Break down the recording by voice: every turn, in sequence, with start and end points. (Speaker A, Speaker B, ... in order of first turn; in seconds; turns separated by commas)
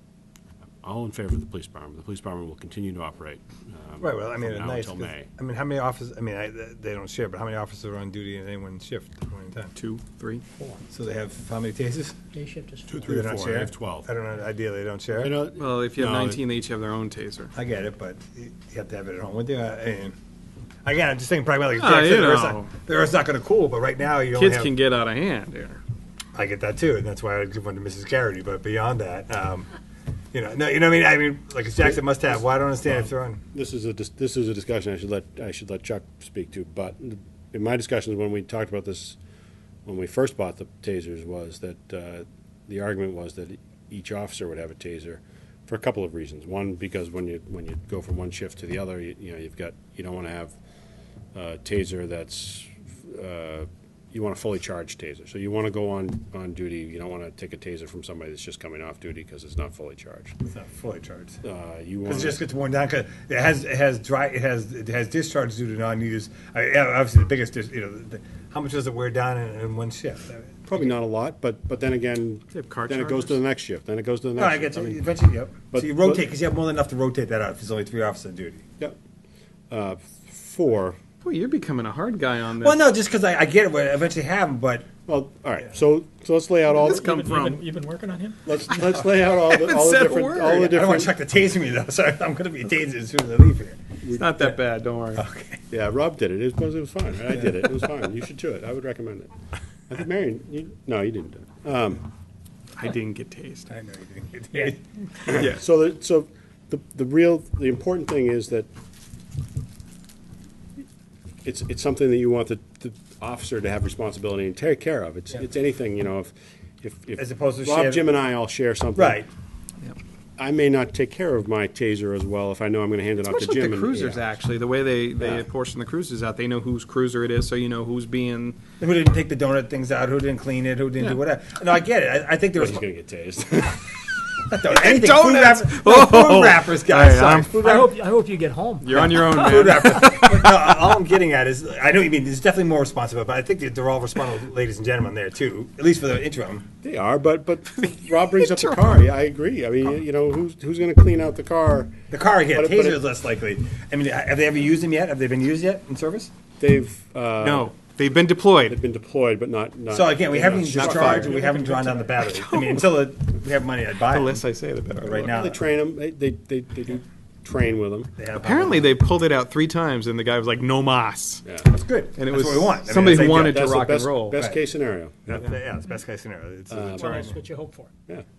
Speaker A: 0.8-5.3, Speaker B: 4.0-9.7, Speaker C: 9.8-10.4, Speaker B: 10.9-12.2, Speaker D: 12.3-12.9, Speaker A: 12.9-14.1, Speaker B: 13.0-15.3, Speaker A: 15.2-16.4, Speaker C: 15.6-17.5, Speaker B: 17.6-20.1, Speaker B: 20.9-24.7, Speaker C: 21.7-22.7, Speaker C: 24.3-25.8, Speaker B: 26.3-29.7, Speaker B: 30.3-33.4, Speaker A: 33.5-39.2, Speaker A: 39.9-50.5, Speaker A: 51.3-60.4, Speaker B: 60.5-61.4, Speaker A: 61.4-62.4, Speaker B: 62.0-70.9, Speaker A: 70.7-75.0, Speaker C: 72.5-73.3, Speaker B: 74.4-78.7, Speaker A: 75.7-76.2, Speaker A: 79.7-81.0, Speaker C: 81.2-82.8, Speaker B: 82.6-84.9, Speaker A: 85.1-87.1, Speaker D: 86.7-88.4, Speaker C: 86.8-87.7, Speaker A: 88.5-91.1, Speaker C: 89.3-90.7, Speaker B: 90.6-93.8, Speaker A: 94.0-94.3, Speaker C: 94.1-95.2, Speaker B: 95.1-95.6, Speaker A: 95.7-99.3, Speaker A: 99.9-102.1, Speaker C: 102.8-103.7, Speaker B: 103.7-105.4, Speaker A: 105.3-108.7, Speaker C: 105.3-105.6, Speaker A: 111.5-119.2, Speaker B: 117.2-118.1, Speaker B: 119.0-119.3, Speaker A: 120.4-124.4, Speaker C: 123.2-128.6, Speaker B: 128.8-132.8, Speaker A: 132.6-133.9, Speaker B: 134.5-137.9, Speaker C: 134.7-137.6, Speaker D: 137.5-139.4, Speaker C: 138.8-140.5, Speaker B: 138.9-146.7, Speaker A: 146.8-152.0, Speaker B: 152.1-156.3, Speaker A: 152.5-153.0, Speaker A: 156.6-157.7, Speaker C: 157.4-158.8, Speaker A: 158.7-161.7, Speaker B: 159.9-164.4, Speaker C: 160.7-162.9, Speaker C: 164.1-165.3, Speaker B: 165.0-165.6, Speaker A: 165.0-168.1, Speaker B: 168.2-168.9, Speaker C: 168.4-171.4, Speaker B: 171.7-173.7, Speaker C: 172.2-174.4, Speaker A: 173.1-175.5, Speaker B: 174.3-174.6, Speaker B: 175.3-177.4, Speaker A: 176.7-177.3, Speaker D: 176.9-177.9